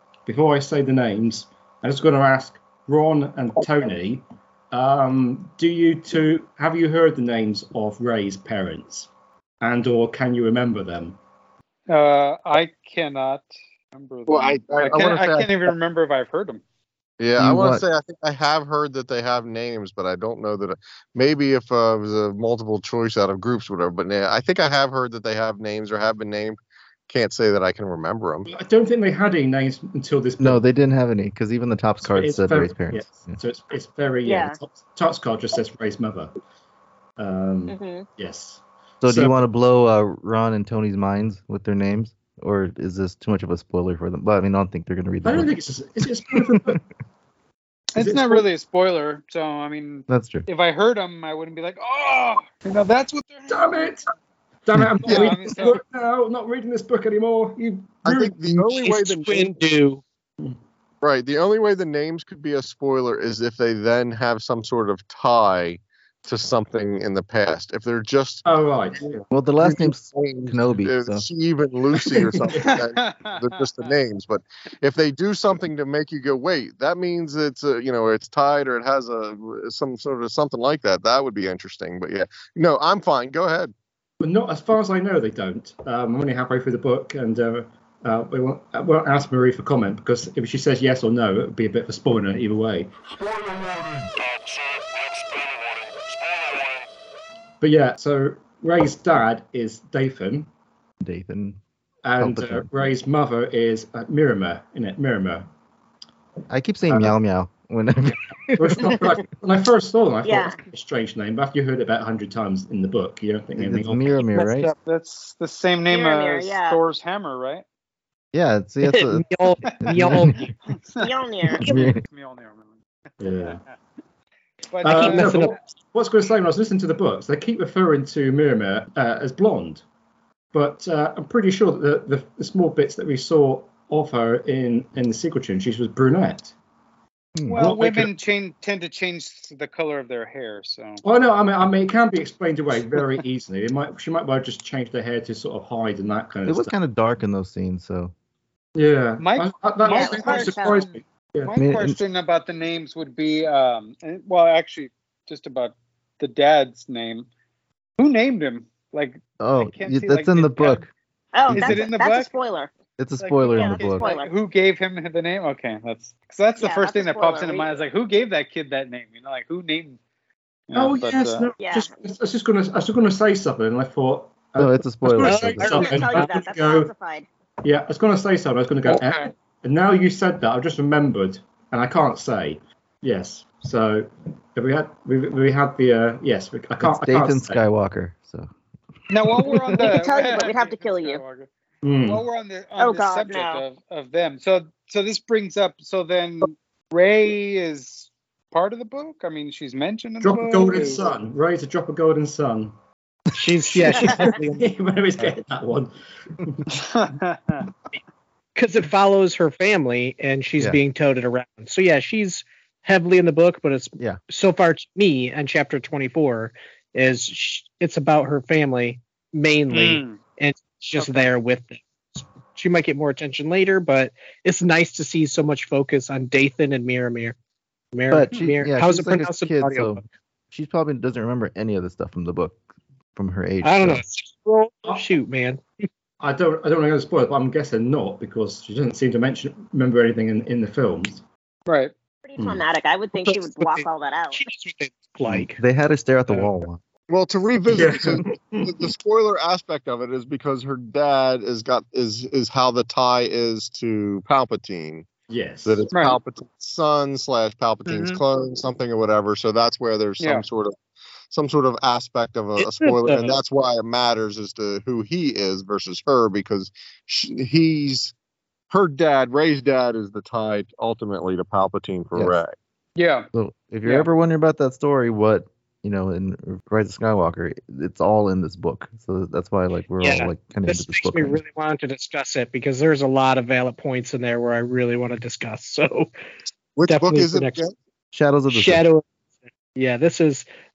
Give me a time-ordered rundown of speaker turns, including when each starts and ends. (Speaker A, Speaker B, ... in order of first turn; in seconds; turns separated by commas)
Speaker A: 0.3-9.1, Speaker A: 9.6-11.2, Speaker B: 11.9-16.6, Speaker C: 14.3-15.7, Speaker C: 17.2-26.6, Speaker D: 17.4-17.8, Speaker C: 27.1-28.5, Speaker A: 28.5-30.6, Speaker D: 30.4-33.4, Speaker A: 32.0-36.3, Speaker E: 34.2-34.6, Speaker A: 37.2-39.4, Speaker E: 37.7-38.1, Speaker D: 39.0-45.5, Speaker A: 45.2-46.8, Speaker D: 46.4-46.8, Speaker B: 48.0-53.9, Speaker A: 48.0-48.5, Speaker D: 50.1-50.5, Speaker A: 53.5-54.1, Speaker A: 54.7-58.8, Speaker B: 55.1-55.8, Speaker C: 58.0-59.6, Speaker F: 58.7-60.0, Speaker C: 61.0-68.5, Speaker A: 68.5-69.2, Speaker D: 69.3-71.2, Speaker C: 69.6-83.7, Speaker B: 72.5-74.0, Speaker A: 84.2-92.9, Speaker A: 97.6-100.5, Speaker D: 101.0-101.6, Speaker A: 102.0-105.5, Speaker D: 102.2-102.7, Speaker D: 106.5-109.2, Speaker A: 106.9-107.2, Speaker A: 108.6-114.2, Speaker E: 110.2-110.6, Speaker D: 113.6-114.7, Speaker F: 114.3-114.7, Speaker B: 114.8-117.6, Speaker E: 115.9-116.8, Speaker D: 118.3-120.5, Speaker F: 118.8-120.5, Speaker B: 120.9-123.7, Speaker E: 121.0-122.0, Speaker D: 121.6-122.0, Speaker A: 123.2-123.6, Speaker B: 124.7-125.6, Speaker A: 124.8-129.8, Speaker F: 124.9-125.6, Speaker A: 130.5-136.5, Speaker D: 137.4-137.7, Speaker B: 137.5-141.0, Speaker A: 137.5-138.1, Speaker A: 141.0-146.8, Speaker D: 146.5-148.1, Speaker A: 148.8-151.6, Speaker B: 149.2-150.8, Speaker E: 149.9-150.9, Speaker B: 151.4-157.3, Speaker D: 151.6-152.0, Speaker B: 158.0-160.9, Speaker D: 159.4-160.9, Speaker E: 161.3-162.7, Speaker B: 161.5-162.3, Speaker D: 161.5-161.8, Speaker D: 163.0-164.1, Speaker B: 163.2-170.0, Speaker E: 163.5-164.3, Speaker E: 166.6-167.7, Speaker B: 170.7-171.5, Speaker A: 170.8-176.9, Speaker E: 171.6-171.9, Speaker D: 174.6-176.1, Speaker F: 175.2-176.3, Speaker E: 175.6-177.3, Speaker A: 177.6-187.6, Speaker D: 186.8-188.5, Speaker B: 189.1-191.5, Speaker E: 189.8-191.2, Speaker A: 191.8-192.2, Speaker B: 192.1-201.1, Speaker E: 192.8-193.6, Speaker A: 200.2-202.8, Speaker F: 203.3-204.7, Speaker A: 203.6-206.7, Speaker B: 206.7-207.7, Speaker F: 208.6-227.3, Speaker B: 219.7-220.2, Speaker F: 227.9-230.0, Speaker D: 228.1-232.6, Speaker D: 233.2-234.0, Speaker F: 233.6-235.9, Speaker A: 236.2-241.2, Speaker B: 241.7-241.9, Speaker E: 242.2-244.4, Speaker A: 242.4-242.7, Speaker F: 243.2-245.6, Speaker D: 245.3-246.8, Speaker C: 247.1-255.1, Speaker A: 247.7-248.9, Speaker A: 255.3-255.9, Speaker C: 255.7-260.8, Speaker B: 255.9-256.2, Speaker B: 257.9-258.2, Speaker B: 260.2-260.5, Speaker C: 261.3-268.1, Speaker F: 262.6-263.4, Speaker C: 268.7-272.6, Speaker B: 273.0-273.3, Speaker D: 273.3-281.4, Speaker F: 280.0-286.1, Speaker C: 286.8-287.8, Speaker F: 286.9-287.6, Speaker D: 288.1-288.9, Speaker F: 288.5-289.1, Speaker F: 289.8-290.5